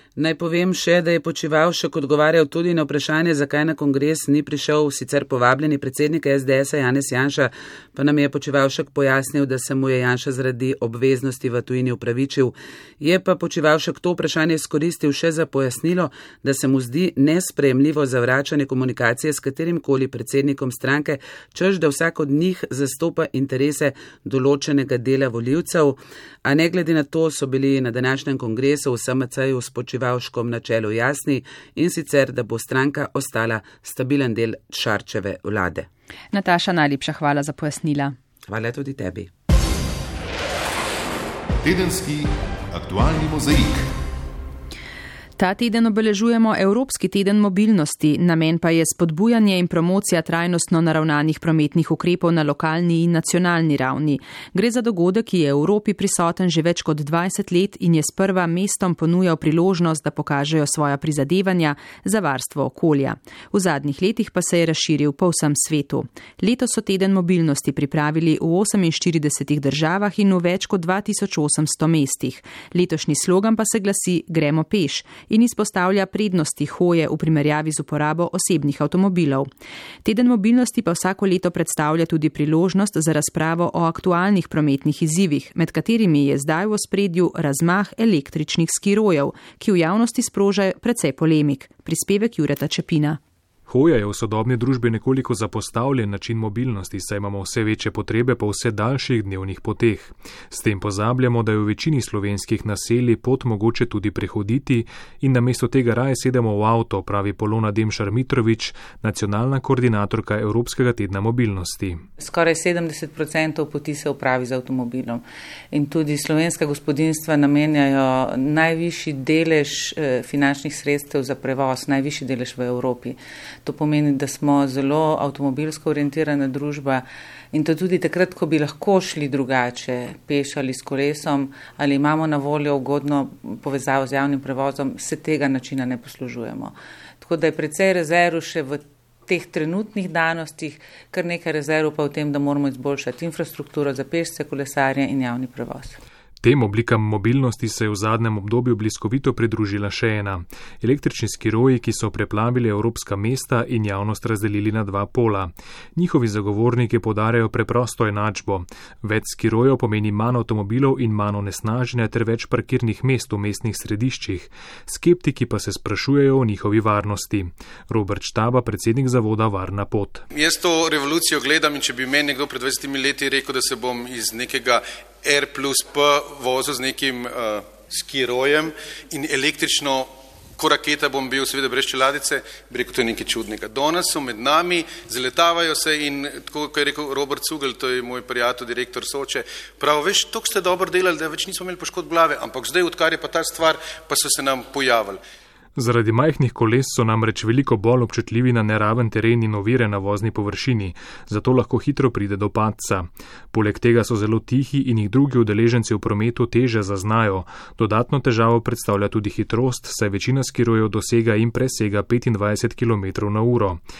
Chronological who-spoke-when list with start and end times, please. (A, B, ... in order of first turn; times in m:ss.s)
0:00.2-0:35.9 A
0:36.3-0:38.1 B
0:38.5-0:39.3 A
0:41.6-0:44.0 C
0:45.4-1:19.5 B
1:20.0-1:33.2 B
1:33.7-1:52.0 D
1:52.2-2:26.0 E
2:26.4-2:50.2 D
2:50.3-3:15.2 F
3:15.8-3:33.8 D